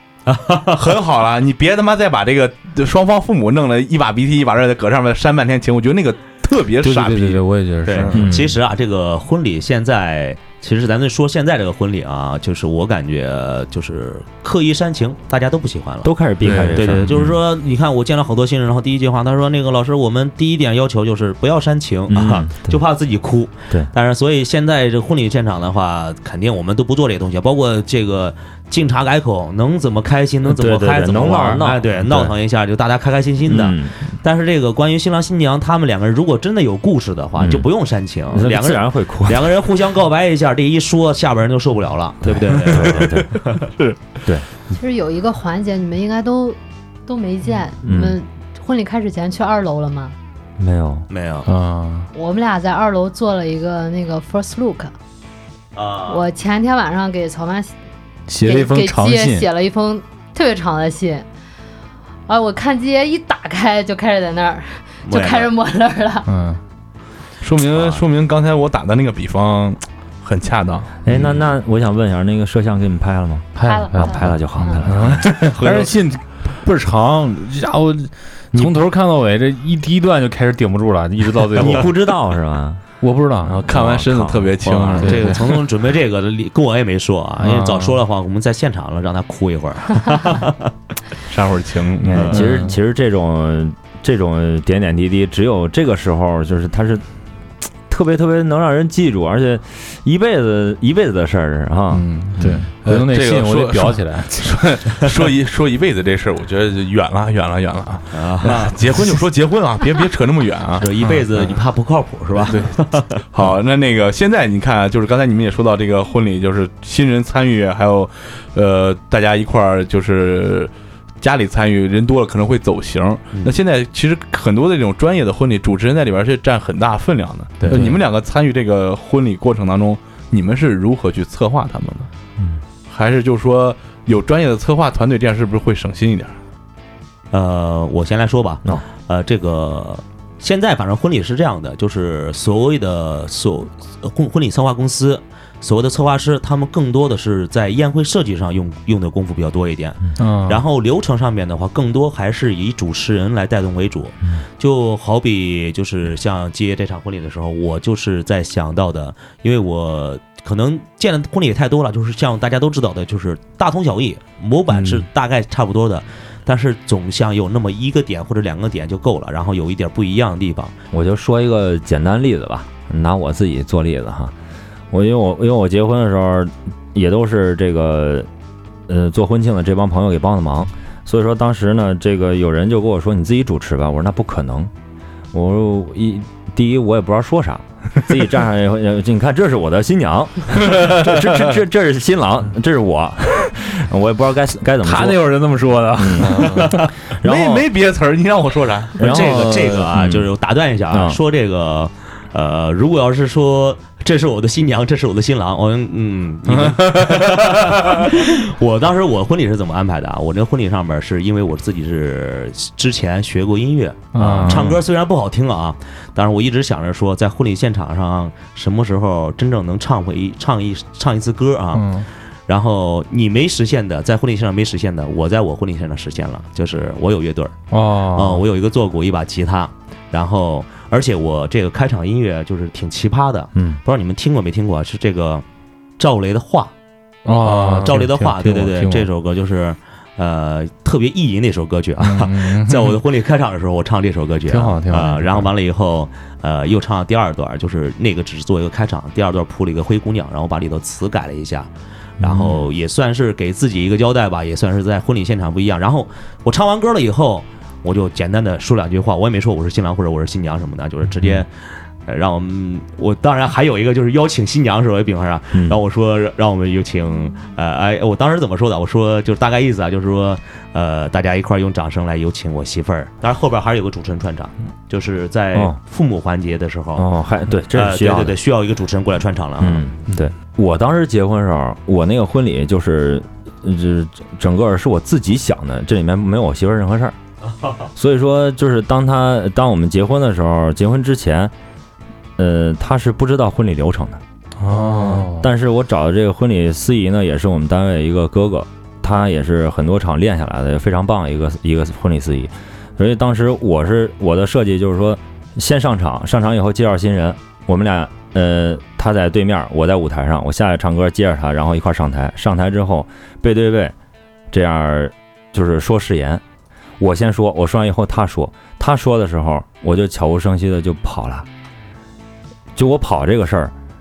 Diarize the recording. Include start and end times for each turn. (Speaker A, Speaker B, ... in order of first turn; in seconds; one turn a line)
Speaker A: 0.3-0.8
Speaker B: 0.7-7.4
Speaker C: 6.8-8.3
Speaker A: 7.9-43.6
Speaker B: 7.9-8.2
Speaker D: 8.1-8.5
Speaker D: 16.0-17.4
Speaker B: 16.4-16.9
Speaker D: 22.1-22.8
Speaker D: 30.5-32.3
Speaker D: 33.5-34.0
Speaker D: 37.4-37.7
Speaker D: 38.3-39.6
Speaker D: 42.2-43.5
Speaker E: 44.7-50.2
Speaker D: 47.8-48.2
Speaker D: 50.6-51.1
Speaker A: 51.1-51.5
Speaker C: 51.5-52.1
Speaker E: 52.1-54.9
Speaker A: 55.8-56.2
Speaker E: 56.1-57.7
Speaker C: 58.3-59.5
Speaker E: 58.4-61.3
Speaker E: 62.3-66.3
Speaker A: 65.0-65.5
Speaker C: 66.3-66.6
Speaker B: 67.4-70.9
Speaker A: 67.7-68.0
Speaker D: 71.0-75.3
Speaker C: 73.6-82.1
Speaker E: 73.6-74.9
Speaker B: 75.0-75.9
Speaker D: 81.6-82.8
Speaker C: 83.0-83.6
Speaker B: 83.5-85.4
Speaker D: 83.7-85.0
Speaker A: 84.7-90.7
Speaker C: 85.0-85.4
Speaker C: 87.4-88.0
Speaker B: 91.3-92.4
Speaker D: 92.0-97.0
Speaker C: 92.3-92.8
Speaker D: 97.9-102.6
Speaker C: 101.9-104.8
Speaker B: 102.4-110.9
Speaker A: 108.1-108.8
Speaker A: 110.8-113.2
Speaker B: 112.4-132.1
Speaker A: 127.6-127.9
Speaker B: 132.9-136.4
Speaker A: 137.3-170.8
Speaker C: 150.2-150.6
Speaker D: 170.9-174.3
Speaker D: 174.9-178.3
Speaker D: 178.9-184.7
Speaker D: 185.3-195.3
Speaker B: 190.8-191.0
Speaker C: 194.8-196.7
Speaker D: 195.9-197.7
Speaker B: 196.2-199.0
Speaker D: 199.0-200.3
Speaker A: 199.0-227.6
Speaker D: 200.9-201.2
Speaker B: 206.5-207.9
Speaker C: 214.1-214.8
Speaker C: 221.7-222.1
Speaker C: 227.7-228.4
Speaker A: 228.1-235.4
Speaker A: 236.0-236.7
Speaker C: 237.2-239.1
Speaker A: 237.5-251.7
Speaker C: 242.0-243.0
Speaker C: 244.5-245.5
Speaker C: 252.2-252.6
Speaker A: 252.2-277.1
Speaker D: 277.0-278.4
Speaker A: 277.7-279.9
Speaker D: 279.6-287.2
Speaker D: 288.0-291.5
Speaker D: 292.4-294.2
Speaker B: 294.6-295.3
Speaker C: 294.7-295.5
Speaker D: 295.4-313.9
Speaker D: 314.5-316.4
Speaker D: 317.0-321.5
Speaker D: 322.8-323.7